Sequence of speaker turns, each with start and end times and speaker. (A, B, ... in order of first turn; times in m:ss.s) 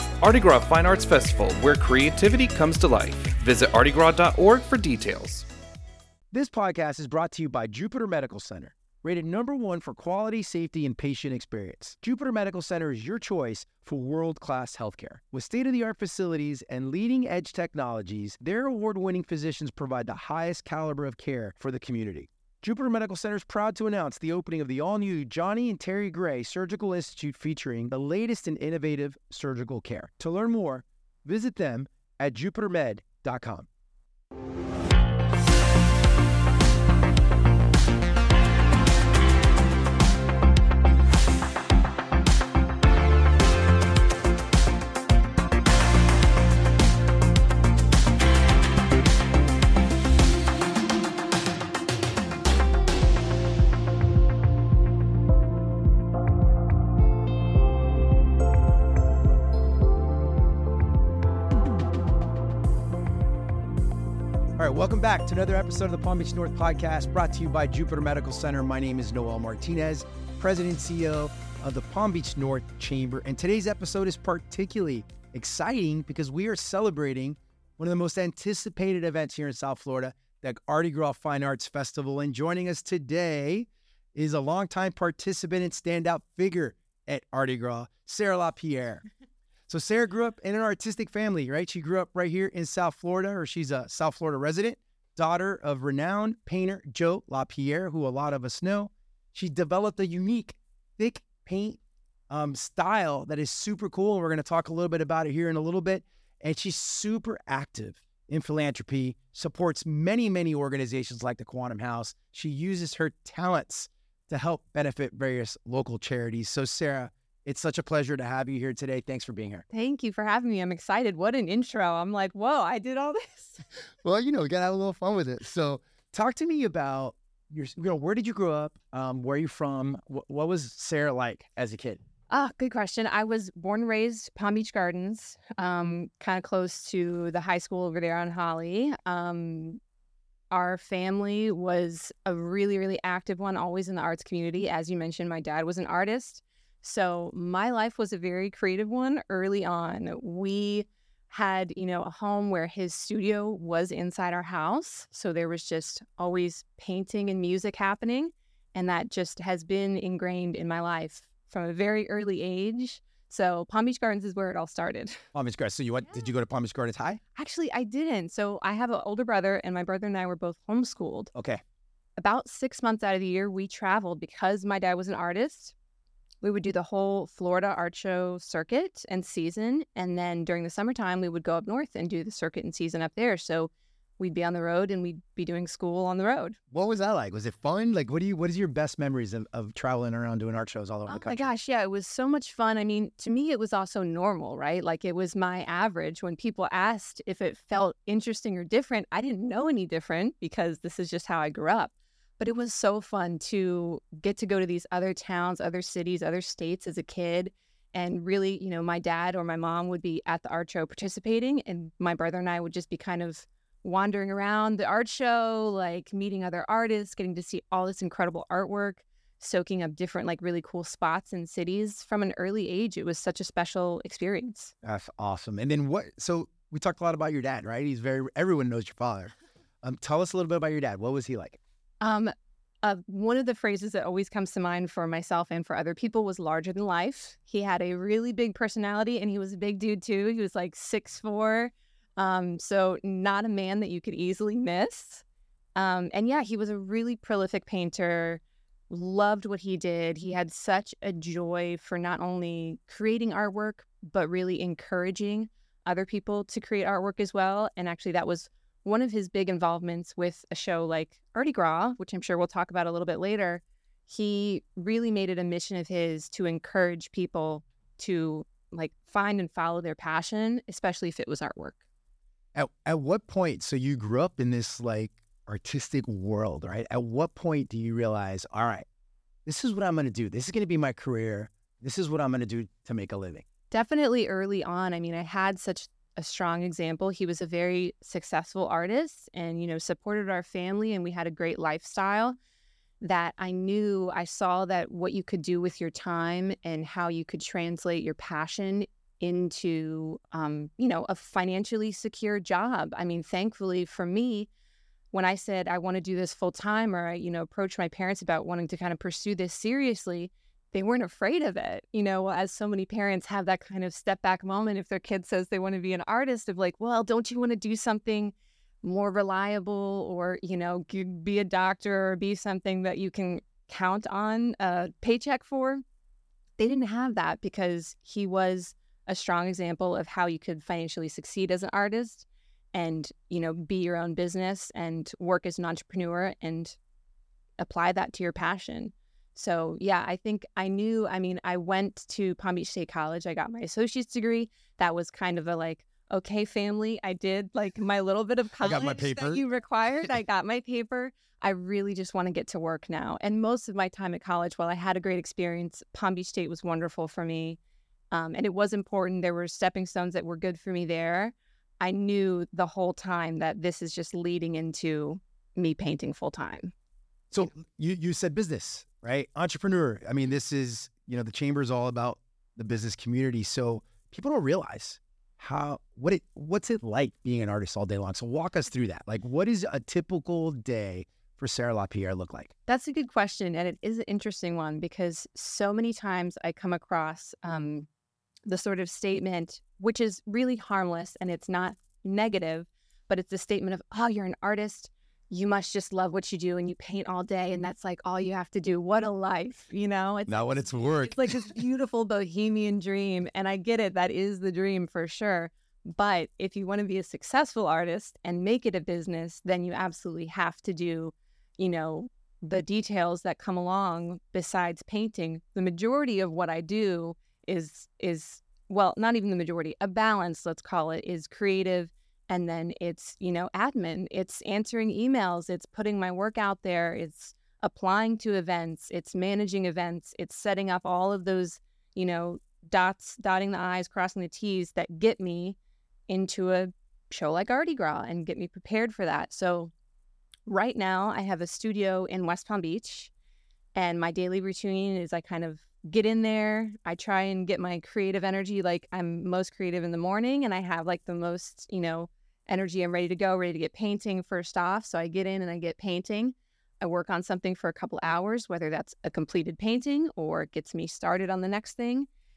0:00.2-0:05.5 A
0:06.3-0:33.7 B
1:04.6-1:29.0 B
1:29.7-1:59.6 B
1:59.7-2:03.6 C
2:04.0-2:12.0 B
2:12.3-2:19.8 C
2:20.5-2:45.2 C
2:45.3-2:47.2 B
2:47.4-2:51.3 C
2:51.3-2:51.6 B
2:52.2-2:55.7 C
2:56.4-3:06.6 C
3:06.7-3:11.5 B
3:11.1-3:44.7 C
3:44.8-3:51.6 B
3:52.0-4:05.2 C
4:05.8-4:31.8 C
4:32.5-4:38.8 B
4:39.5-4:43.4 B
4:43.7-4:52.4 C
4:53.0-5:04.5 C
5:05.1-5:25.8 C
5:26.6-5:36.8 C
5:37.6-5:57.6 C
5:48.6-5:49.4 B
5:58.1-6:06.7 C
6:07.3-6:22.5 B
6:22.7-6:27.9 C
6:28.5-7:15.6 C
6:40.3-6:41.6 B
7:16.1-7:19.7 C
7:20.5-7:23.1 C
7:23.8-7:42.1 C